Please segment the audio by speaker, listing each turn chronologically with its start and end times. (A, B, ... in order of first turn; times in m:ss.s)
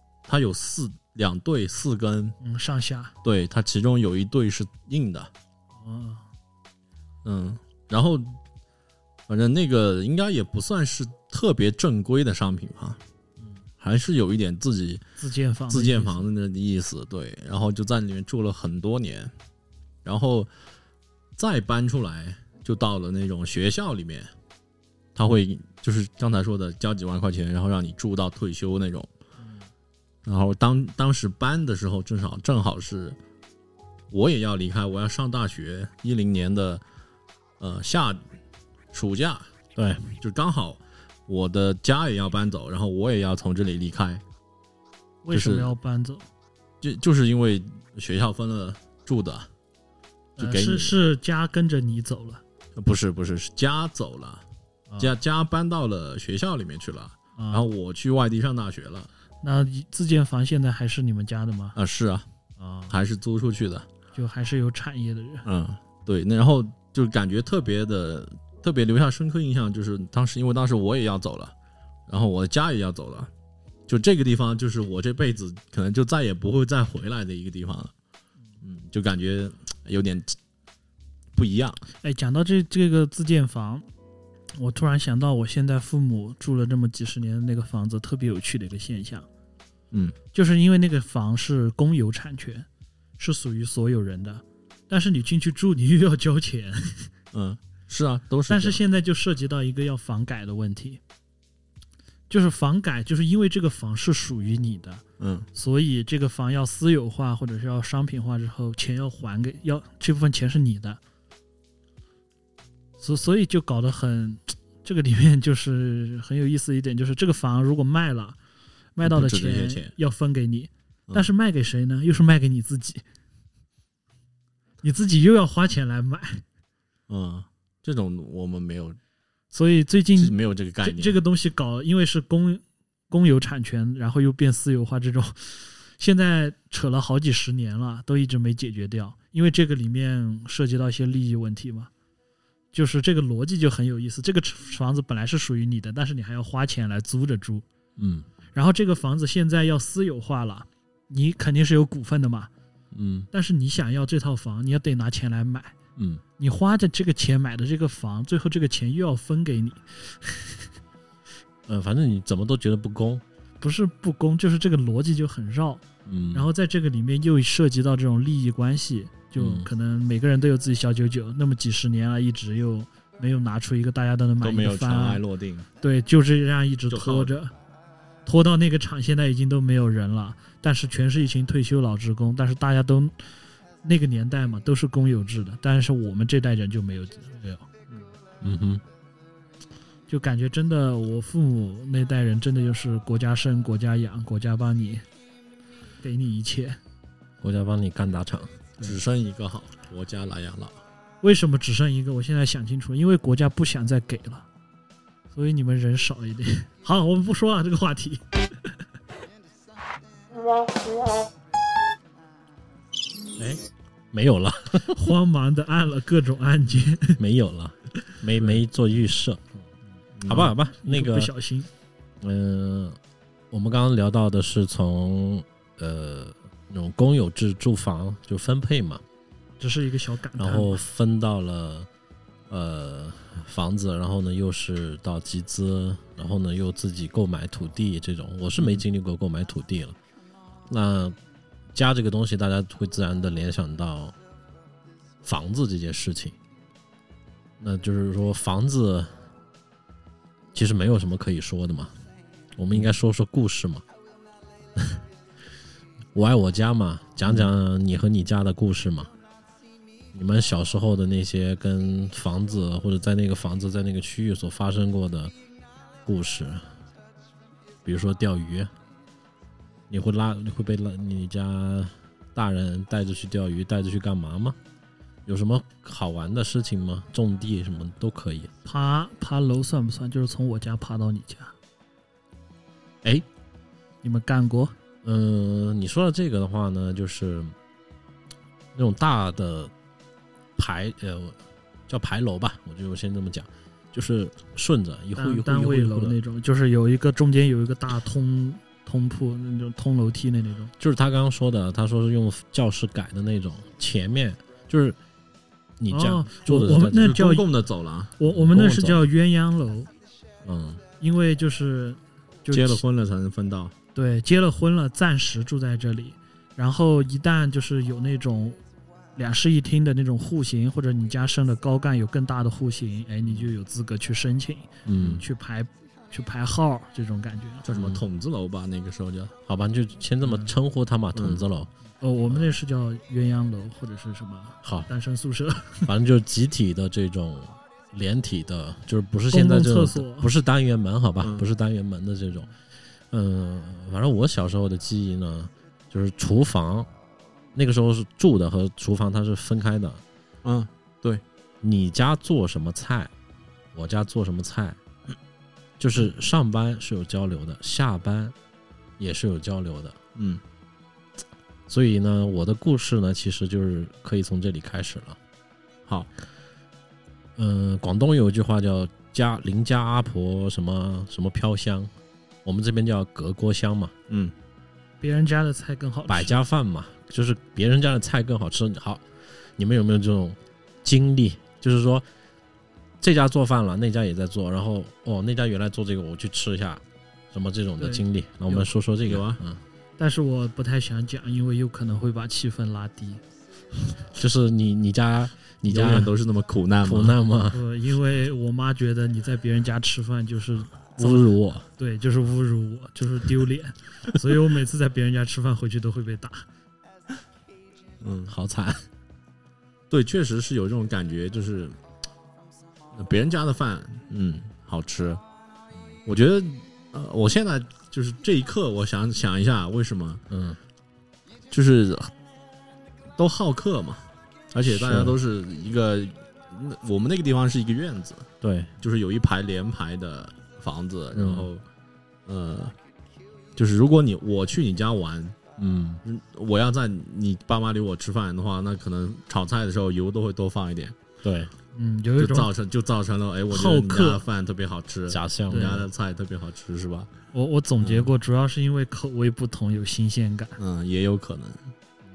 0:00.3-0:02.4 A
0:02.4-0:03.1 B
0:03.2-0:05.3 A
0:05.8-0:06.2 B
0:07.2-0:08.4 A
0:09.3-0:13.0 A
0:13.8-0:15.0 A
0:15.2-0:16.3 B
0:15.7-0:19.3 A
0:20.0-0:20.5 A
0:21.4-0:24.3 A
0:25.2-0:29.1 A
0:30.2-0:33.2 A
0:34.1-0:36.8 A
0:37.6-0:38.2 A
0:38.9-0:39.5 A
0:39.8-0:40.0 C
0:40.2-0:44.2 A
0:45.2-0:46.2 B
0:45.3-0:45.7 A
0:46.8-0:49.5 A
0:50.4-0:52.4 B
0:50.4-0:51.0 A
0:52.8-0:54.4 A
0:55.0-0:59.1 A
0:57.4-0:57.7 B
0:59.4-1:01.8 B
1:01.8-1:02.3 A
1:02.6-1:02.9 B
1:02.9-1:03.9 A
1:04.1-1:05.4 B
1:05.4-1:11.5 A
1:12.1-1:13.3 A
1:13.9-1:17.9 A
1:18.6-1:20.4 A
1:21.4-1:21.8 A
1:22.0-1:23.9 B
1:24.6-1:29.3 B
1:30.3-1:32.7 B
1:33.2-1:37.1 B
1:37.3-1:38.8 A
1:38.5-1:41.0 B
1:42.3-1:45.0 B
1:45.2-1:45.5 A
1:45.5-1:51.0 B
1:53.0-1:58.4 B
1:59.0-2:03.0 B
1:59.0-1:59.9 A
2:04.8-2:06.4 B
2:07.1-2:09.0 A
2:09.5-2:21.9 B
2:10.2-2:11.2 A
2:22.7-2:27.6 B
2:28.0-2:28.3 C
2:28.5-2:32.5 B
2:32.9-2:33.3 C
2:33.3-2:35.8 B
2:36.0-2:36.2 C
2:36.4-2:40.7 B
2:41.7-2:43.2 C
2:43.6-2:55.2 B
2:46.0-2:46.5 C
2:49.4-2:49.7 C
2:54.4-2:55.7 A
2:55.8-2:57.5 B
2:56.9-2:57.3 A
2:58.3-3:03.2 B
3:03.8-3:07.7 B
3:08.4-3:08.8 C
3:10.1-3:15.0 B
3:16.0-3:16.8 B
3:17.4-3:18.6 C
3:18.8-3:20.8 A
3:21.2-3:24.5 B
3:25.3-3:28.7 B
3:33.4-3:35.0 C
3:34.9-3:37.2 B
3:37.2-3:39.6 C
3:40.2-3:40.5 A
3:40.3-3:41.3 C
3:40.3-3:41.7 B
3:42.2-3:43.0 C
3:43.5-3:49.0 C
3:49.6-3:50.8 B
3:50.4-3:51.9 C
3:52.5-4:00.0 C
4:00.7-4:01.2 C
4:01.7-4:04.2 C
4:05.2-4:06.4 C
4:07.6-4:09.2 C
4:10.5-4:11.9 C
4:12.6-4:13.8 C
4:16.1-4:19.1 C
4:20.1-4:25.3 C
4:26.0-4:26.7 C
4:27.8-4:28.7 C
4:29.9-4:34.6 C
4:35.3-4:38.5 C
4:38.6-4:41.5 B
4:44.0-4:44.8 B
4:45.0-4:47.6 C
4:48.8-4:49.7 C
4:50.6-4:56.2 C
4:55.2-5:00.7 B
5:00.8-5:05.0 C
5:05.8-5:07.2 C
5:05.9-5:07.5 B
5:06.6-5:08.1 A
5:08.2-5:09.9 B
5:08.3-5:09.1 C
5:10.4-5:10.8 C
5:11.0-5:12.8 B
5:12.5-5:13.7 A
5:14.0-5:18.6 B
5:19.2-5:27.6 B
5:23.2-5:23.5 A
5:24.8-5:25.2 C
5:27.6-5:29.3 A
5:27.7-5:28.0 C
5:29.5-5:31.7 C
5:30.2-5:30.5 B
5:31.2-5:31.4 A
5:32.0-5:35.9 B
5:34.6-5:34.9 C
5:35.9-5:42.5 C
5:39.3-5:40.3 B
5:43.1-5:46.9 C
5:47.5-5:50.0 C
5:50.4-5:51.2 A
5:51.6-5:53.1 C
5:53.7-5:54.8 C
5:55.8-5:58.4 C
5:59.0-6:00.0 C
6:00.2-6:00.4 A
6:01.7-6:05.2 C
6:07.4-6:11.9 C
6:12.4-6:13.9 C
6:14.1-6:14.3 A
6:15.0-6:16.4 B
6:16.1-6:19.0 C
6:19.6-6:22.0 C
6:23.0-6:29.6 C
6:27.8-6:28.7 B
6:29.1-6:29.4 A
6:30.0-6:33.2 B
6:34.2-6:36.1 C
6:35.7-6:37.2 A
6:36.8-6:37.6 C
6:37.5-6:46.4 B
6:41.0-6:41.7 C
6:48.0-6:48.3 A
6:48.3-6:48.8 C
6:49.9-6:51.8 A
6:52.9-6:55.2 A
6:56.1-7:00.2 A
7:00.3-7:00.6 C
7:01.5-7:02.1 A
7:03.2-7:08.3 A
7:04.7-7:05.2 C
7:08.4-7:08.7 C
7:08.8-7:11.6 A
7:11.1-7:11.5 C
7:12.3-7:12.8 A
7:13.6-7:15.4 A
7:15.6-7:16.0 C
7:16.0-7:21.0 A
7:21.2-7:21.5 C
7:21.7-7:22.5 B
7:22.2-7:27.1 A
7:23.5-7:24.2 B
7:25.1-7:25.8 C
7:25.5-7:25.9 B
7:27.3-7:30.6 B
7:27.8-7:28.1 A
7:30.6-7:31.7 A